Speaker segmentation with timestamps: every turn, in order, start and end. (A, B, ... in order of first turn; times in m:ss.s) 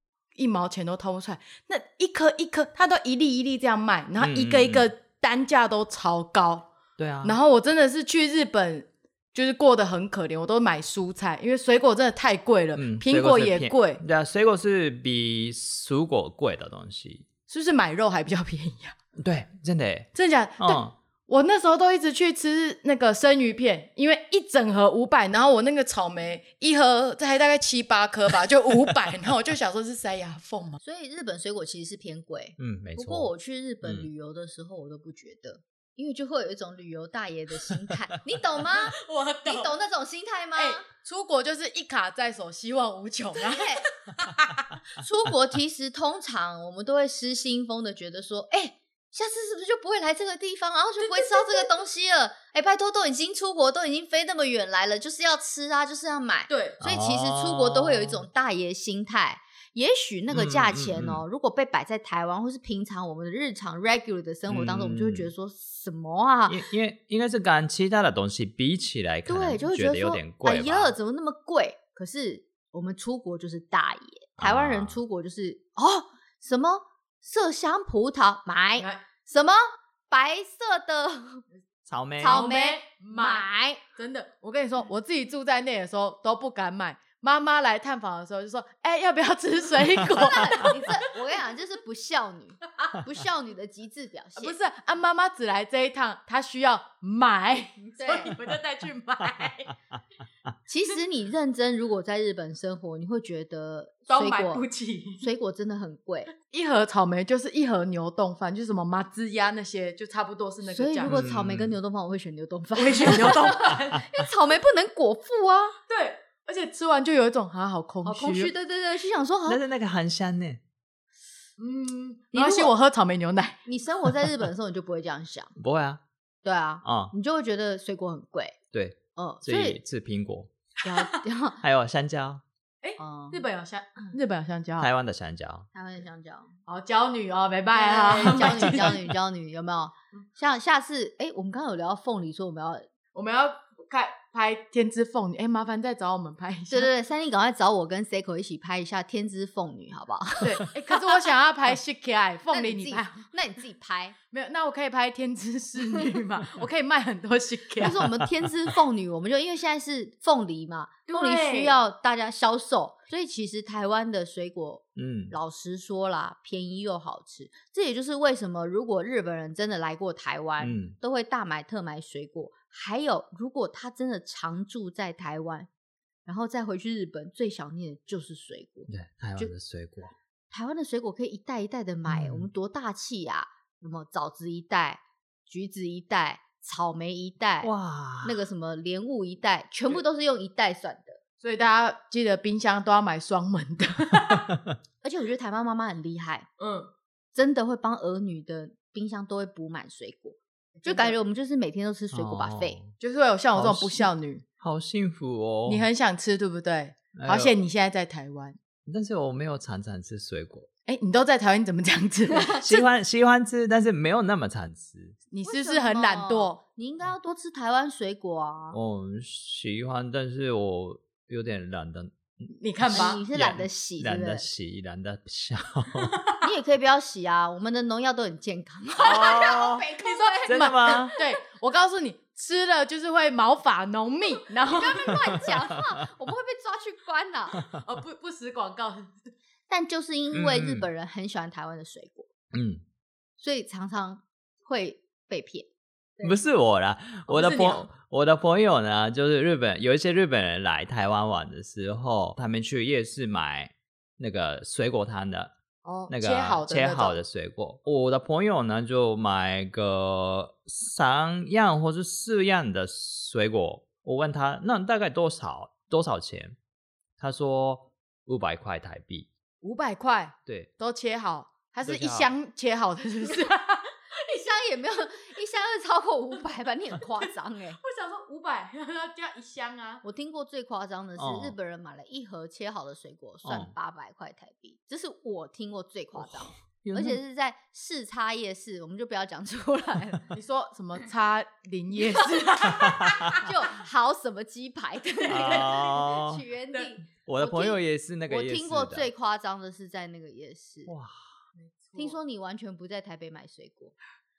0:00.3-0:06.7 A
0:04.2-0:04.9 B
0:07.0-0:07.4 B
0:07.2-0:14.0 A
0:12.7-0:17.2 B
0:17.5-0:18.9 A
0:19.2-0:20.1 B
0:20.1-0:30.8 A
0:20.6-0:20.9 B
0:30.8-0:40.8 C
0:32.6-0:33.3 B
0:33.8-0:34.1 B
0:38.6-0:39.7 A
0:40.5-0:44.7 A
0:43.4-0:43.9 C
0:45.0-1:06.6 C
0:51.0-0:51.7 A
0:56.5-0:56.8 A
0:56.8-0:58.2 B
1:00.3-1:01.2 B
1:04.5-1:05.3 B
1:06.5-1:10.9 B
1:09.3-1:21.4 C
1:14.4-1:15.0 B
1:18.8-1:19.0 A
1:21.9-1:22.4 B
1:22.2-1:23.8 C
1:22.2-1:31.0 A
1:30.0-1:34.6 C
1:34.4-1:39.7 A
1:37.8-1:38.3 C
1:40.7-1:44.6 C
1:44.1-1:45.2 A
1:45.2-1:46.3 C
1:46.4-1:51.2 A
1:50.7-1:55.8 C
1:51.0-1:51.8 B
1:52.8-1:54.0 A
1:55.9-1:58.5 A
1:58.0-1:59.6 C
1:59.5-2:00.6 B
2:01.6-2:03.6 A
2:02.3-2:02.7 C
2:03.6-2:05.5 C
2:05.6-2:06.0 B
2:06.4-2:08.6 C
2:06.8-2:07.1 B
2:08.7-2:10.5 B
2:09.1-2:09.8 C
2:10.8-2:11.6 C
2:10.9-2:11.2 A
2:11.6-2:12.4 B
2:12.8-2:14.9 A
2:13.0-2:13.4 C
2:14.8-2:15.7 B
2:15.7-2:16.5 C
2:16.7-2:19.0 A
2:17.7-2:22.9 C
2:18.2-2:18.7 B
2:23.1-2:26.9 A
2:26.7-2:31.0 C
2:30.4-2:33.3 A
2:32.5-2:34.2 C
2:34.3-2:38.0 A
2:37.8-2:55.7 C
2:41.1-2:41.8 A
2:45.0-2:45.3 B
2:50.6-2:50.9 B
2:56.2-2:59.5 C
2:58.9-3:00.1 B
3:00.5-3:11.2 C
3:02.0-3:02.5 B
3:07.6-3:08.4 B
3:11.4-3:14.5 A
3:15.0-3:16.5 C
3:16.6-3:16.9 A
3:17.3-3:22.8 C
3:20.8-3:21.2 A
3:22.1-3:22.9 B
3:23.0-3:24.4 A
3:23.5-3:24.1 B
3:24.6-3:25.9 B
3:25.7-3:28.6 A
3:27.2-3:27.5 B
3:28.9-3:30.7 B
3:30.9-3:32.8 A
3:32.3-3:32.6 C
3:32.6-3:35.2 B
3:35.3-3:36.6 A
3:35.4-3:38.8 C
3:38.7-3:46.2 B
3:42.6-3:43.2 A
3:42.9-3:44.4 C
3:46.1-3:46.4 A
3:46.4-3:51.3 C
3:49.0-3:49.9 B
3:49.0-3:55.4 A
3:50.5-3:51.1 B
3:54.7-3:57.6 C
3:55.3-3:55.6 B
3:57.6-3:57.8 B
3:57.7-3:59.3 A
3:59.7-4:02.3 C
4:00.3-4:00.9 B
4:02.5-4:02.8 B
4:03.4-4:05.7 C
4:06.2-4:15.5 B
4:07.3-4:07.8 A
4:15.8-4:17.2 A
4:16.1-4:26.6 B
4:27.2-4:29.3 B
4:29.6-4:34.1 A
4:31.8-4:32.3 B
4:34.1-4:37.8 C
4:37.8-4:40.0 A
4:40.0-4:50.3 C
4:41.2-4:41.6 B
4:43.4-4:43.7 B
4:46.1-4:47.2 B
4:50.3-4:53.5 A
4:52.3-5:00.9 C
4:52.8-4:53.4 B
4:55.2-4:56.0 A
4:55.3-4:56.4 B
4:57.2-4:59.1 B
5:00.9-5:01.3 B
5:01.5-5:02.2 A
5:02.0-5:03.9 C